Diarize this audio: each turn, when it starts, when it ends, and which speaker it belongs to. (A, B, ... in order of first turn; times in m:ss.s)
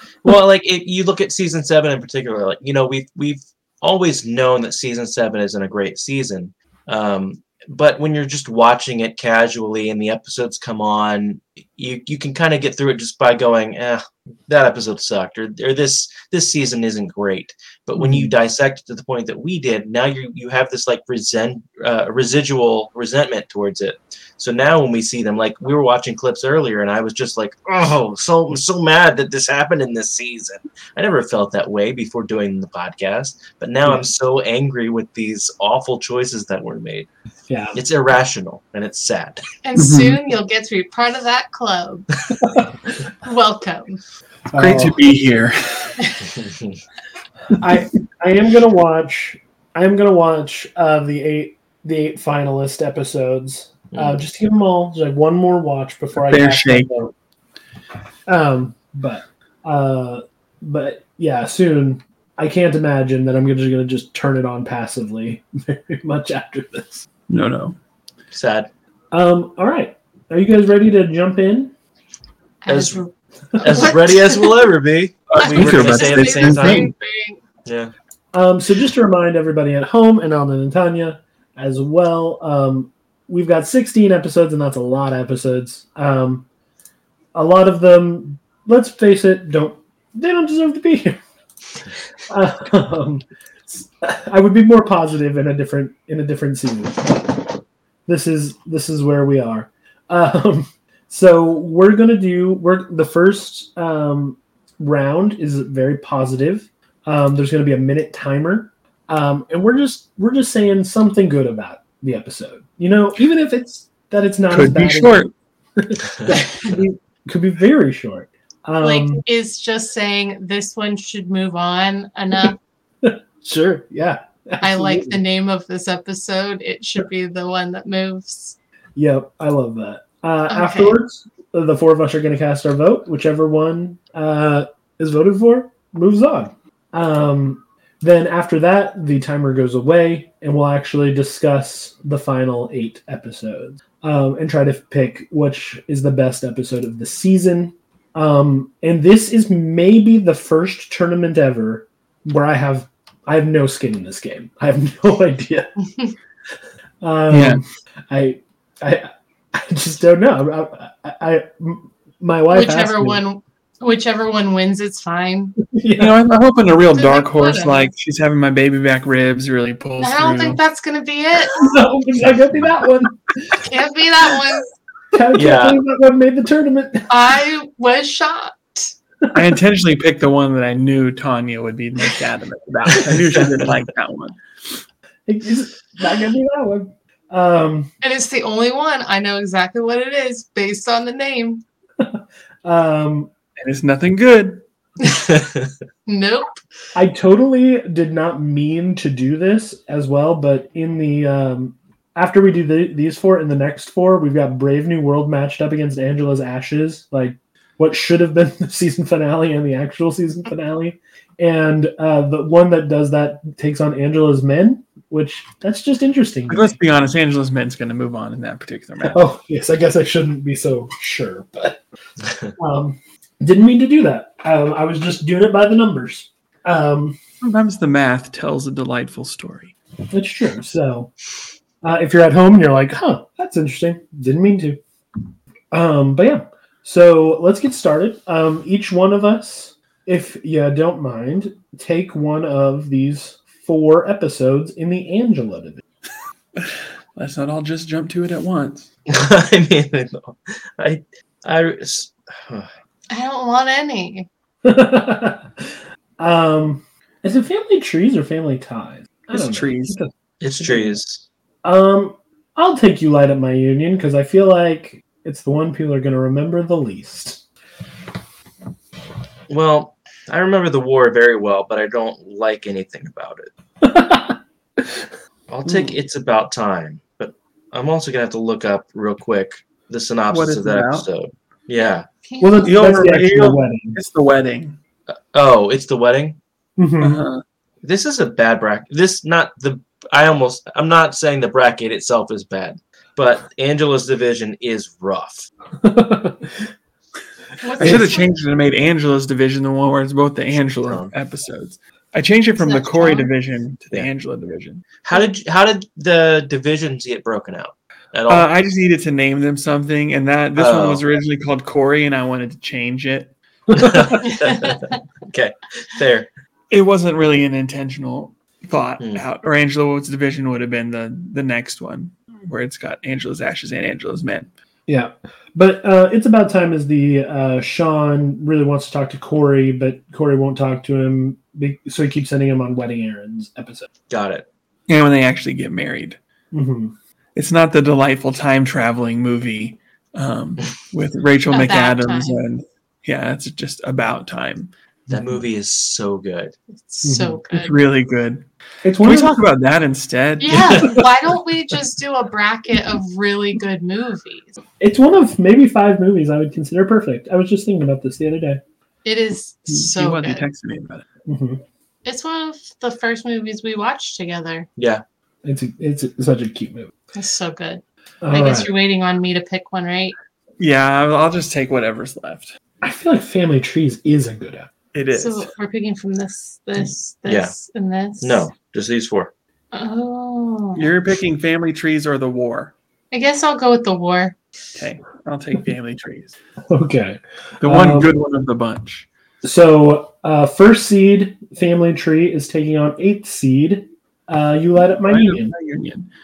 0:00.2-0:37.1 A
0:18.0-0:18.3 B
0:33.8-0:34.1 B
0:37.5-0:37.8 B
0:37.8-0:39.4 A
0:39.6-0:42.1 C
0:39.8-0:40.2 D
0:42.4-0:43.0 B
0:43.2-0:44.0 C
0:44.5-0:45.0 B
0:44.6-0:46.2 D
0:47.6-0:57.1 B
0:53.9-0:54.2 A
0:56.3-0:56.9 D
0:58.3-1:07.1 B
1:07.3-1:07.8 D
1:08.3-1:08.7 A
1:09.1-1:11.7 B
1:12.6-1:14.5 C
1:12.7-1:13.0 A
1:13.6-1:16.9 A
1:15.3-1:16.9 D
1:15.4-1:17.4 C
1:17.6-1:17.9 A
1:18.3-1:26.5 B
1:27.3-1:31.2 B
1:32.3-1:37.4 B
1:38.1-1:59.2 B
1:54.5-1:55.3 D
1:58.8-2:02.6 C
2:03.0-2:05.2 B
2:04.6-2:08.6 C
2:09.0-2:35.7 B
2:10.5-2:11.0 C
2:37.0-2:43.2 B
2:37.3-2:37.6 D
2:42.5-2:45.6 C
2:45.7-2:46.2 B
2:46.0-2:50.6 D
2:46.9-2:47.9 C
2:50.0-2:51.6 C
2:51.5-2:53.7 B
2:53.7-2:54.7 C
2:55.1-2:57.1 B
2:55.3-2:55.8 A
2:57.1-2:58.9 C
2:59.2-2:59.5 B
2:59.3-3:04.4 D
3:03.3-3:03.6 A
3:05.3-3:07.9 B
3:08.0-3:11.6 C
3:12.0-3:13.3 B
3:13.6-3:14.6 D
3:15.2-3:15.7 A
3:16.1-3:16.6 C
3:17.0-3:36.8 B
3:36.5-3:39.2 D
3:39.0-3:41.8 B
3:42.6-3:47.2 B
3:47.4-3:49.7 D
3:50.1-3:51.1 B
3:51.8-3:54.8 B
3:55.7-4:05.8 B
4:06.6-4:08.9 D
4:09.1-4:12.7 A
4:13.1-4:14.3 C
4:14.6-4:21.0 B
4:19.3-4:20.0 D
4:20.4-4:21.2 A
4:21.6-4:27.4 B
4:29.5-4:33.5 A
4:33.8-4:35.1 B
4:35.5-4:42.1 A
4:40.3-4:41.1 D
4:42.2-4:42.8 C
4:42.4-4:44.0 B
4:42.6-4:44.8 D
4:45.1-4:46.4 A
4:46.8-4:47.2 B
4:47.0-4:47.4 D
4:47.8-4:55.5 A
4:55.8-4:56.7 B
4:57.6-4:58.3 C
4:57.8-5:04.8 D
4:57.8-4:58.1 B
5:00.8-5:01.1 A
5:02.6-5:03.3 C
5:05.0-5:08.5 A
5:08.3-5:13.3 D
5:10.6-5:11.0 A
5:13.7-5:14.2 B
5:13.7-5:16.3 A
5:14.3-5:14.8 C
5:16.7-5:24.5 D
5:24.9-5:33.9 B
5:34.1-5:34.5 A
5:34.9-5:36.2 D
5:36.5-5:37.0 B
5:37.4-5:44.7 D
5:41.5-5:42.4 C
5:45.1-5:46.6 A
5:45.1-5:45.4 B
5:46.7-5:47.8 C
5:47.0-5:47.4 B
5:47.5-5:48.5 D
5:48.8-5:49.4 B
5:49.0-5:51.0 D
5:50.4-5:54.6 C
5:50.5-5:51.0 A
5:54.8-5:58.6 B
5:59.0-6:00.4 C
5:59.7-6:01.0 D
6:01.3-6:01.6 B
6:02.0-6:04.7 C
6:04.8-6:05.0 A
6:05.4-6:06.9 B
6:07.2-6:10.2 C
6:08.2-6:08.7 B
6:10.6-6:12.5 D
6:12.8-6:14.7 B
6:14.9-6:15.5 D
6:15.1-6:18.5 C
6:17.3-6:17.5 A
6:18.2-6:19.3 A
6:19.7-6:20.9 C
6:20.8-6:22.7 D
6:23.1-6:24.4 C
6:24.8-6:26.4 D
6:26.7-6:28.1 B
6:27.6-6:29.1 D
6:29.4-6:35.5 B
6:34.8-6:36.1 D